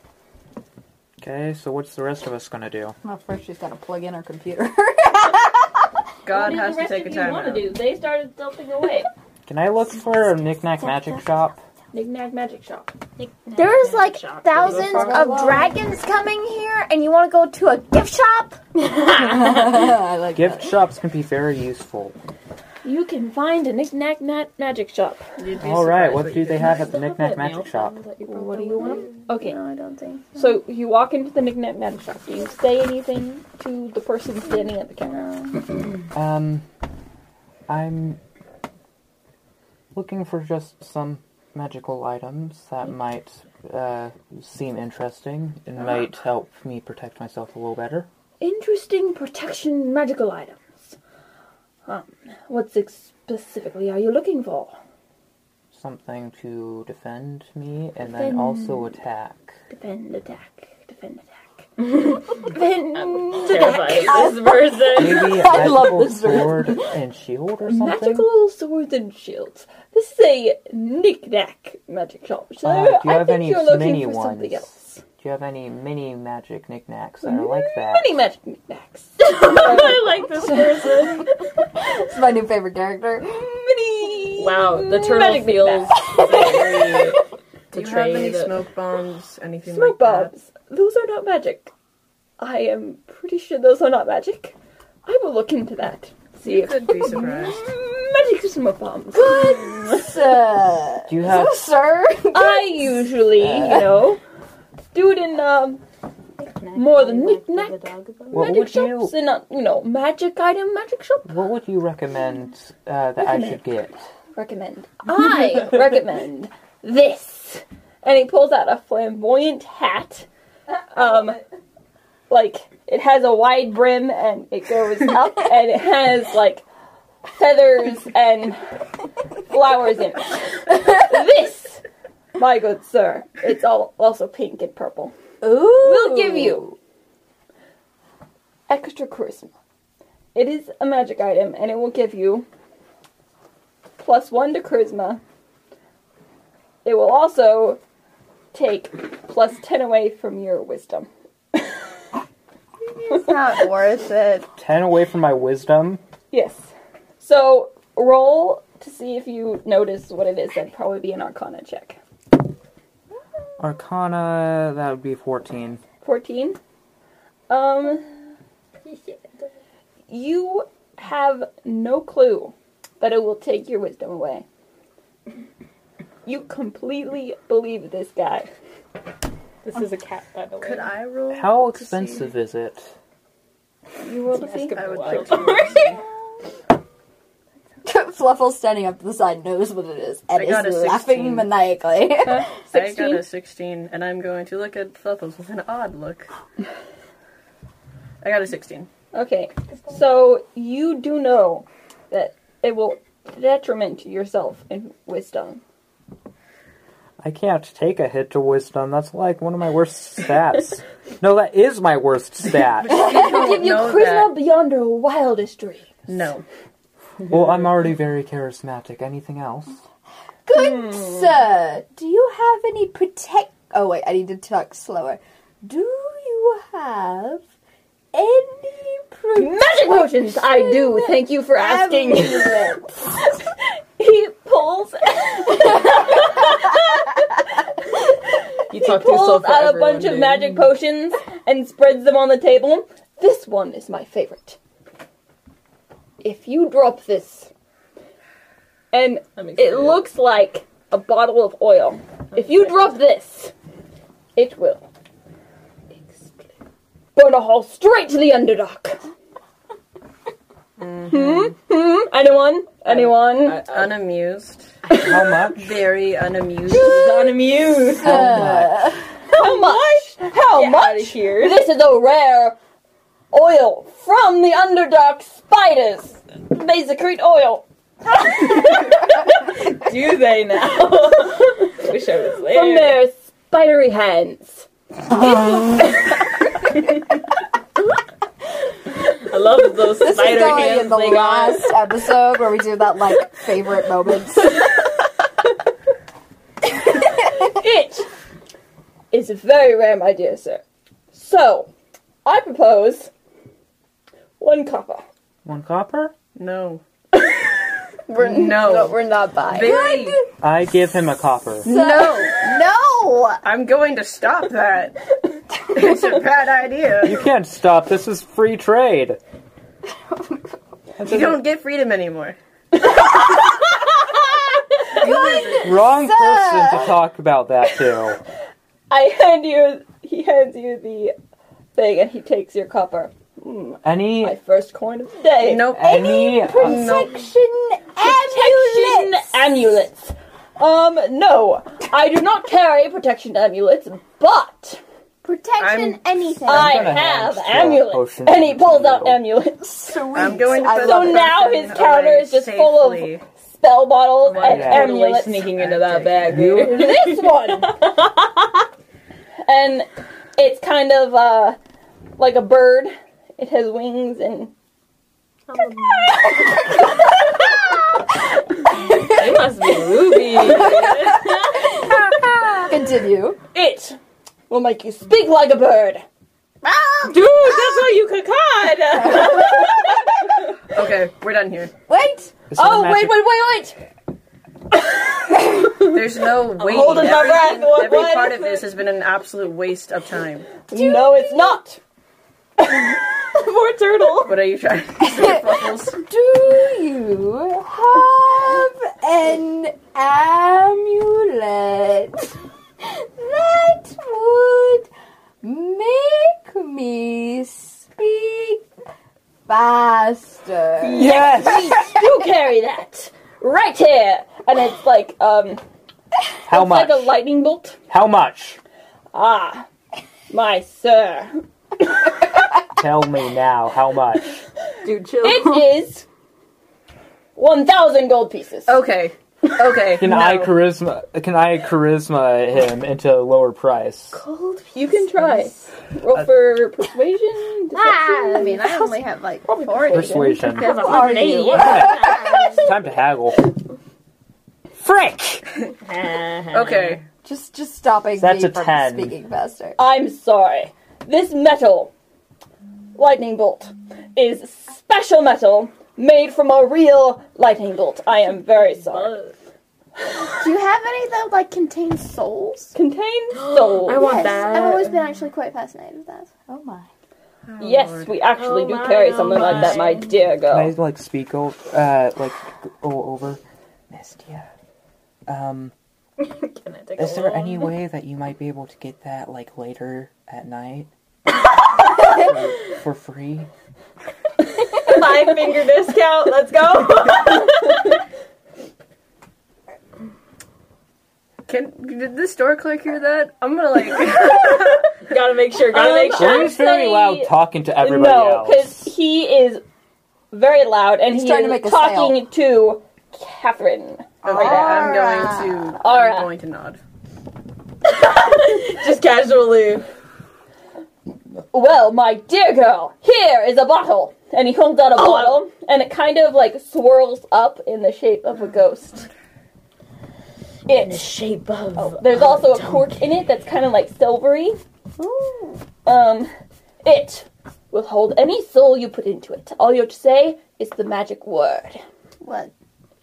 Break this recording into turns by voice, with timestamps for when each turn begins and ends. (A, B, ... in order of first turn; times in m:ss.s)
0:01.2-0:03.0 A
0:03.0-0:05.9 B
0:06.2-0:07.8 C
0:06.3-0:09.1 D
0:09.5-0:11.6 A
0:11.9-0:12.9 D
0:13.2-0:15.5 E
0:13.5-0:18.6 F
0:14.7-0:15.5 D
0:14.8-0:15.6 B
0:18.8-0:20.0 E
0:19.2-0:20.8 B
0:20.3-0:22.2 A
0:22.8-0:25.2 D
0:25.4-0:27.0 C
0:25.6-0:28.0 A
0:26.6-0:29.2 E
0:28.3-0:30.6 F
0:28.5-0:29.6 D
0:30.4-0:35.6 D
0:36.1-0:36.7 A
0:37.7-0:38.2 A
0:39.9-0:48.1 A
0:48.4-0:51.0 D
0:51.9-0:54.8 D
0:55.7-0:59.6 A
0:58.1-0:58.9 D
0:59.7-1:01.7 D
1:01.8-1:02.2 E
1:02.4-1:04.3 D
1:03.0-1:05.6 E
1:03.7-1:06.9 B
1:04.9-1:08.3 A
1:07.7-1:15.0 D
1:12.6-1:18.2 A
1:17.2-1:21.2 D
1:19.2-1:21.3 E
1:21.9-1:23.5 B
1:23.4-1:26.9 D
1:24.4-1:27.2 E
1:26.0-1:27.0 B
1:26.4-1:27.1 C
1:27.7-1:28.6 E
1:27.7-1:30.3 C
1:29.6-1:31.7 D
1:32.4-1:40.4 D
1:36.4-1:37.6 C
1:39.1-1:43.9 B
1:41.1-1:41.6 A
1:42.3-1:44.2 D
1:44.9-1:45.8 D
1:46.4-1:48.4 E
1:46.8-1:47.8 D
1:48.3-1:49.1 A
1:48.3-1:51.3 D
1:51.3-1:54.0 A
1:53.2-1:53.6 D
1:54.4-2:00.3 D
2:00.9-2:01.4 D
2:02.3-2:06.6 D
2:07.4-2:08.7 D
2:09.4-2:11.8 D
2:12.4-2:15.1 D
2:15.4-2:16.8 B
2:15.8-2:16.8 D
2:18.7-2:19.5 D
2:20.4-2:22.5 D
2:24.0-2:25.2 D
2:26.8-2:27.8 D
2:28.5-2:31.1 D
2:32.9-2:34.5 F
2:34.6-2:36.0 A
2:36.3-2:42.0 D
2:43.6-2:45.8 A
2:46.0-2:46.6 D
2:47.5-2:48.1 D
2:50.1-2:54.4 D
2:56.2-2:58.5 D
2:59.6-3:01.0 E
3:00.6-3:02.4 C
3:01.3-3:02.9 A
3:04.0-3:06.0 D
3:04.3-3:05.8 E
3:04.7-3:06.0 C
3:07.8-3:12.5 B
3:10.3-3:11.5 C
3:12.2-3:13.2 D
3:12.7-3:16.3 C
3:18.2-3:18.9 C
3:19.1-3:25.6 D
3:27.2-3:33.1 A
3:32.7-3:34.3 C
3:32.9-3:35.9 D
3:36.1-3:36.4 C
3:37.3-3:39.8 A
3:40.5-3:47.4 B
3:40.5-3:41.3 D
3:48.1-3:53.3 B
3:49.4-3:53.4 D
3:54.0-3:57.4 D
3:58.7-4:00.7 E
3:58.7-4:04.6 D
4:06.2-4:07.5 D
4:08.9-4:13.5 D
4:09.4-4:10.0 E
4:12.4-4:12.7 E
4:14.4-4:14.9 D
4:17.2-4:19.0 D
4:20.8-4:21.5 C
4:21.1-4:23.6 D
4:22.9-4:24.0 E
4:23.7-4:24.9 C
4:24.9-4:25.9 A
4:25.5-4:27.4 C
4:26.7-4:28.3 E
4:26.7-4:27.0 D
4:27.8-4:29.1 B
4:27.9-4:28.9 A
4:29.3-4:32.6 D
4:29.3-4:31.7 E
4:33.3-4:39.2 D
4:39.7-4:43.0 E
4:42.5-4:44.7 D
4:45.1-4:46.1 B
4:49.1-4:51.8 E
4:50.0-4:54.7 B
4:57.2-4:58.1 D
4:59.1-5:00.6 D
5:01.1-5:01.7 D
5:02.2-5:03.1 D
5:04.4-5:05.0 D
5:05.4-5:06.1 A
5:06.4-5:06.8 C
5:08.1-5:09.8 F
5:08.2-5:10.2 C
5:09.6-5:10.3 B
5:10.4-5:11.7 A
5:11.6-5:12.3 B
5:11.6-5:13.4 F
5:13.4-5:15.0 C
5:15.6-5:17.3 C
5:17.0-5:19.2 A
5:19.9-5:20.6 B
5:21.0-5:21.4 A
5:21.0-5:22.4 C
5:24.9-5:25.8 C
5:24.9-5:27.0 B
5:25.6-5:28.2 A
5:28.9-5:31.1 D
5:31.8-5:35.7 D
5:33.8-5:34.4 A
5:35.4-5:37.3 C
5:35.7-5:37.0 A
5:35.8-5:39.4 B
5:38.0-5:44.8 D
5:45.2-5:47.0 F
5:45.6-5:46.0 C
5:46.5-5:55.5 D
5:46.5-5:49.2 A
5:49.6-5:51.4 B
5:50.1-5:53.2 C
5:54.3-5:58.4 E
5:54.5-5:54.9 A
5:55.5-5:56.7 C
5:56.3-5:56.9 A
5:56.4-5:57.8 D
5:59.5-6:01.6 D
6:02.2-6:04.5 D
6:05.5-6:06.3 E
6:06.4-6:07.5 B
6:08.9-6:09.2 B
6:09.0-6:11.8 E
6:10.2-6:13.4 B
6:11.8-6:12.6 D
6:13.5-6:14.0 D
6:14.5-6:16.0 D
6:16.7-6:17.1 B
6:17.1-6:20.0 E
6:20.7-6:21.7 C
6:21.9-6:22.3 B
6:22.5-6:23.2 A
6:22.6-6:23.8 D
6:25.5-6:25.9 E
6:25.8-6:30.6 C
6:26.4-6:28.7 E
6:30.7-6:31.8 D
6:30.7-6:31.6 B
6:33.3-6:34.5 E
6:34.2-6:36.0 C
6:35.0-6:44.9 B
6:45.4-6:48.6 B
6:49.5-6:51.4 B
6:50.8-6:55.6 D
6:50.9-6:51.9 A
6:56.5-6:57.2 A
6:56.5-6:57.8 D
6:57.9-6:58.6 A
6:59.1-6:59.7 D
7:00.3-7:01.4 D
7:02.8-7:04.4 A
7:04.8-7:05.5 E
7:04.8-7:05.6 B
7:05.2-7:06.0 D
7:07.4-7:08.8 D
7:08.7-7:10.6 C
7:10.0-7:14.2 A
7:14.5-7:14.9 F
7:14.7-7:18.6 D
7:17.7-7:22.6 F
7:19.5-7:20.5 D
7:19.9-7:20.9 A
7:20.6-7:22.2 E
7:20.8-7:21.8 B
7:21.5-7:23.5 A
7:24.8-7:25.5 A
7:25.8-7:27.0 E
7:26.5-7:27.0 C
7:27.2-7:29.8 B
7:28.2-7:29.2 A
7:29.8-7:31.9 D
7:33.0-7:39.2 D
7:38.5-7:39.4 E
7:40.2-7:42.7 F
7:42.7-7:44.4 D
7:43.3-7:45.0 E
7:43.9-7:46.3 F
7:46.5-7:46.9 B
7:47.5-7:48.2 C
7:47.6-7:50.8 D
7:48.4-7:50.2 E
7:49.4-7:49.9 A
7:50.4-7:54.5 A
7:55.3-7:55.7 A
7:56.2-7:57.7 E
7:57.0-8:00.9 A
8:02.0-8:03.5 A
8:04.8-8:07.9 E
8:11.5-8:15.0 C
8:15.0-8:16.5 E
8:15.7-8:19.6 D
8:16.1-8:18.9 A
8:20.3-8:25.0 D
8:21.1-8:22.2 B
8:24.2-8:26.8 C
8:24.4-8:25.5 B
8:24.4-8:25.5 F
8:25.8-8:26.3 D
8:27.8-8:29.9 E
8:31.5-8:39.1 D
8:35.0-8:35.4 E
8:40.7-8:41.2 D
8:40.7-8:43.0 E
8:41.8-8:44.6 D
8:45.0-8:45.6 F
8:45.8-8:46.3 D
8:46.8-8:51.8 D
8:52.2-8:52.5 F